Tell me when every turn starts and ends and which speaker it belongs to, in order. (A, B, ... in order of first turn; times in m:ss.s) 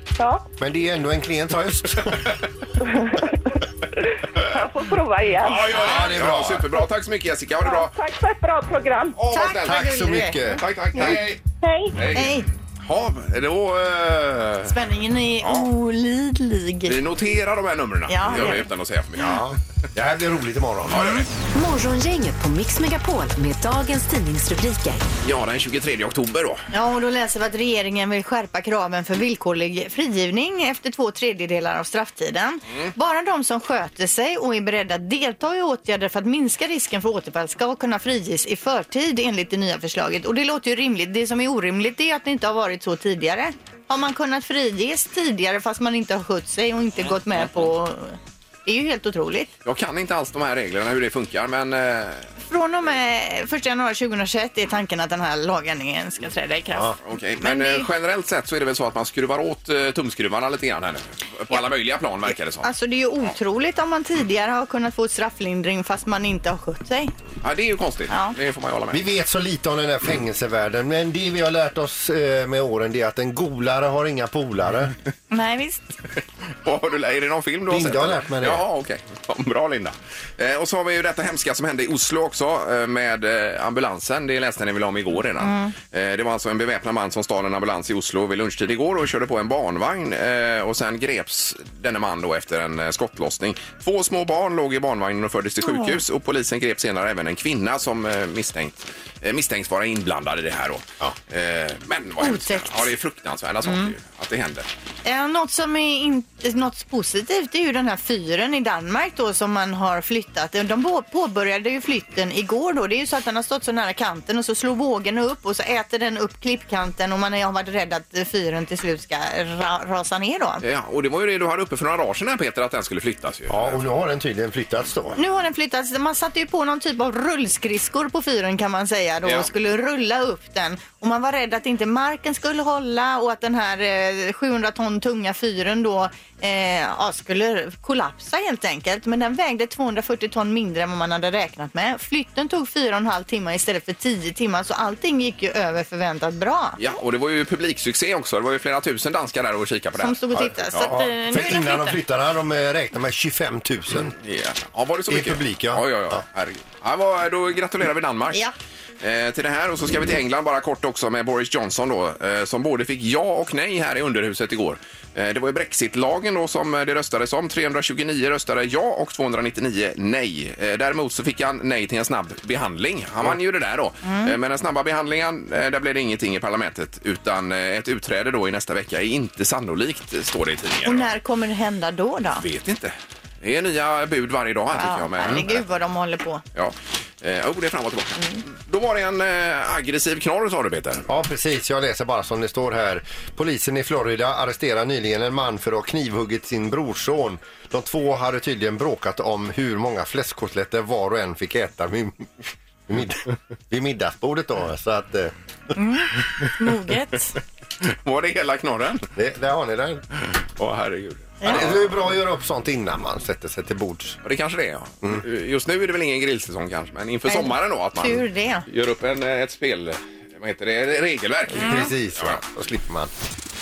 0:00.2-0:00.5 A
0:00.6-0:02.3 B
0:02.8-0:05.8 A
0:05.4-0:07.9 C
0:05.7-0:06.8 B
0:07.6-0:09.2 A
0:09.2-0:09.9 C
0:09.3-0:11.2 D
0:09.6-0:11.2 B
0:10.6-0:11.4 C
0:11.6-0:11.9 A
0:12.0-0:14.8 C
0:12.1-0:12.5 D
0:14.6-0:17.0 D
0:15.4-0:15.7 C
0:16.9-0:19.5 C
0:18.1-0:18.7 D
0:19.2-0:21.2 B
0:20.9-0:21.3 C
0:21.5-0:25.1 E
0:25.2-0:26.7 C
0:26.7-0:49.5 D
0:49.6-0:52.3 C
0:52.4-0:57.9 D
0:57.0-1:02.7 C
1:02.6-1:07.1 D
1:07.4-1:09.1 C
1:08.9-1:15.0 B
1:15.3-1:15.9 D
1:16.6-1:44.7 C
1:17.7-1:18.6 B
1:25.4-1:25.7 D
1:35.6-1:36.0 D
1:42.2-1:42.9 D
1:43.6-1:43.9 D
1:45.0-2:00.6 D
2:00.6-2:03.8 C
2:03.5-2:05.2 B
2:05.2-2:26.8 D
2:26.8-2:30.2 C
2:30.0-2:32.0 D
2:30.4-2:34.1 B
2:34.1-2:38.4 C
2:35.1-2:36.2 B
2:39.0-3:01.1 C
2:54.0-2:54.4 D
3:00.8-3:02.4 D
3:02.4-3:05.6 C
3:04.7-3:06.4 D
3:06.6-3:11.1 C
3:11.1-3:22.3 B
3:22.9-3:25.3 B
3:25.8-3:27.4 D
3:27.8-3:29.1 C
3:29.2-3:30.0 B
3:30.2-3:32.0 C
3:31.4-3:34.2 B
3:34.2-3:42.4 C
3:37.3-3:38.6 D
3:41.5-3:43.1 B
3:41.6-3:41.9 D